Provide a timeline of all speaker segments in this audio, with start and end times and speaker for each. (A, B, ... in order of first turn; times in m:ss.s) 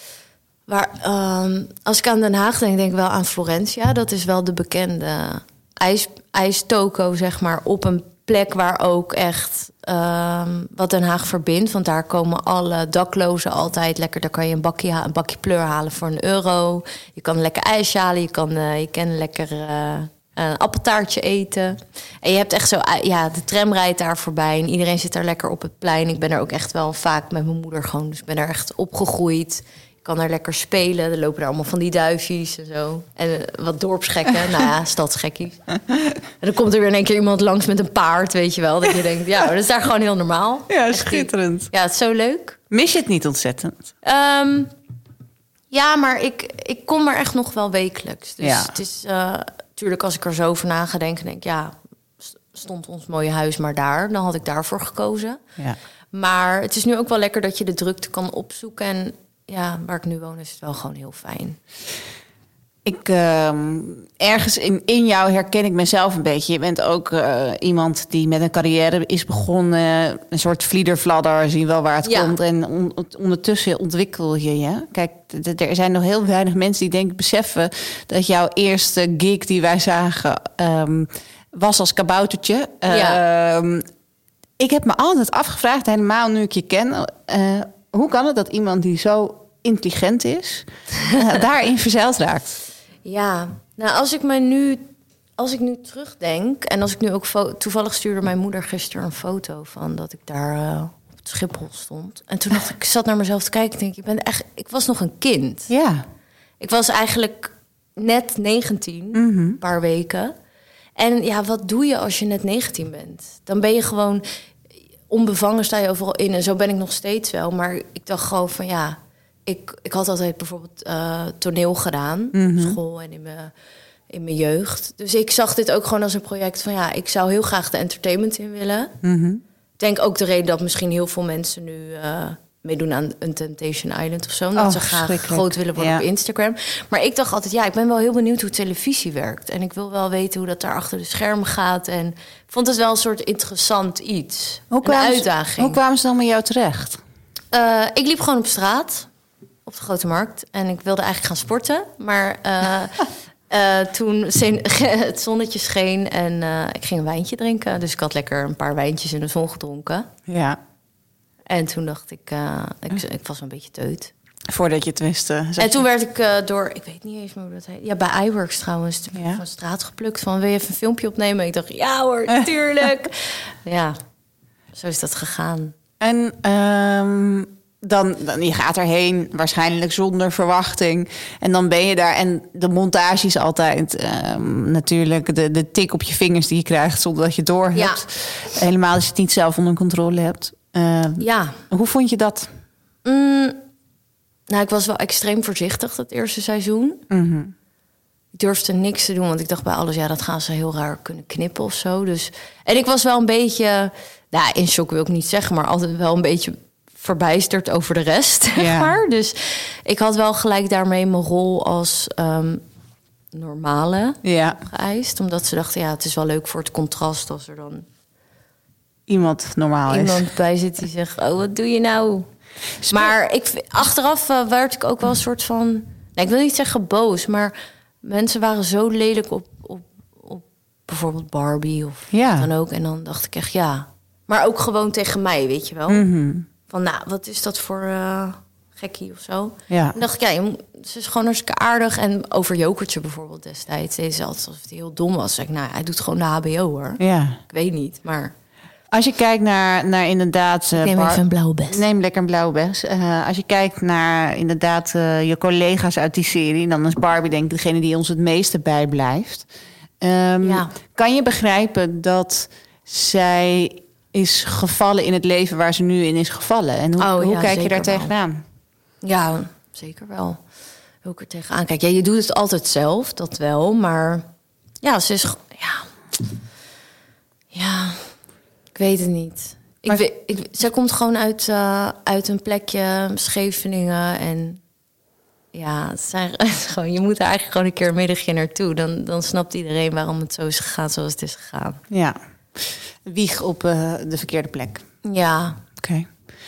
0:00.7-0:35.7 A
0:36.4-0:42.6 A
0:40.7-0:41.7 B
0:42.7-0:43.9 B
0:44.0-0:44.7 A
0:45.7-0:55.4 A
0:48.4-0:48.7 B
0:56.1-1:01.6 A
1:02.8-1:23.8 B
1:12.0-1:12.3 A
1:22.9-1:23.2 A
1:24.6-1:32.5 B
1:33.0-1:34.8 A
1:35.4-1:45.7 A
1:45.7-1:46.0 B
1:46.6-1:50.3 A
1:49.1-1:49.6 B
1:51.0-1:54.2 A
1:55.1-2:03.5 A
2:02.3-2:02.8 B
2:04.1-2:08.9 A
2:09.0-2:09.4 B
2:09.8-2:25.8 A
2:14.5-2:16.0 B
2:24.7-2:27.0 B
2:27.5-2:29.1 A
2:29.6-2:40.1 A
2:40.3-2:40.6 B
2:41.5-2:44.1 A
2:44.5-2:45.8 B
2:45.6-2:54.0 A
2:49.1-2:49.4 B
2:52.3-2:52.9 B
2:54.7-2:55.7 A
2:56.0-3:12.5 B
3:07.7-3:08.0 A
3:11.2-3:11.6 A
3:13.0-3:13.6 A
3:14.5-3:17.0 A
3:17.1-3:17.5 B
3:18.4-3:32.6 A
3:28.6-3:28.9 B
3:33.3-3:37.8 A
3:34.2-3:34.6 B
3:39.1-3:40.2 B
3:39.8-3:42.3 A
3:42.8-3:43.1 B
3:42.9-3:56.1 A
3:52.1-3:52.5 B
3:55.9-3:56.5 B
3:56.7-4:08.3 A
3:59.7-3:59.9 B
4:07.0-4:07.4 B
4:08.9-4:19.5 B
4:10.8-4:11.8 A
4:20.0-4:28.4 B
4:20.4-4:20.7 A
4:27.0-4:28.1 A
4:29.0-4:30.4 A
4:31.0-4:34.2 A
4:34.8-4:35.8 A
4:37.5-4:38.0 A
4:38.8-4:44.6 A
4:45.5-4:51.8 A
4:51.9-4:54.8 B
4:55.0-4:55.6 A
4:55.8-4:56.1 B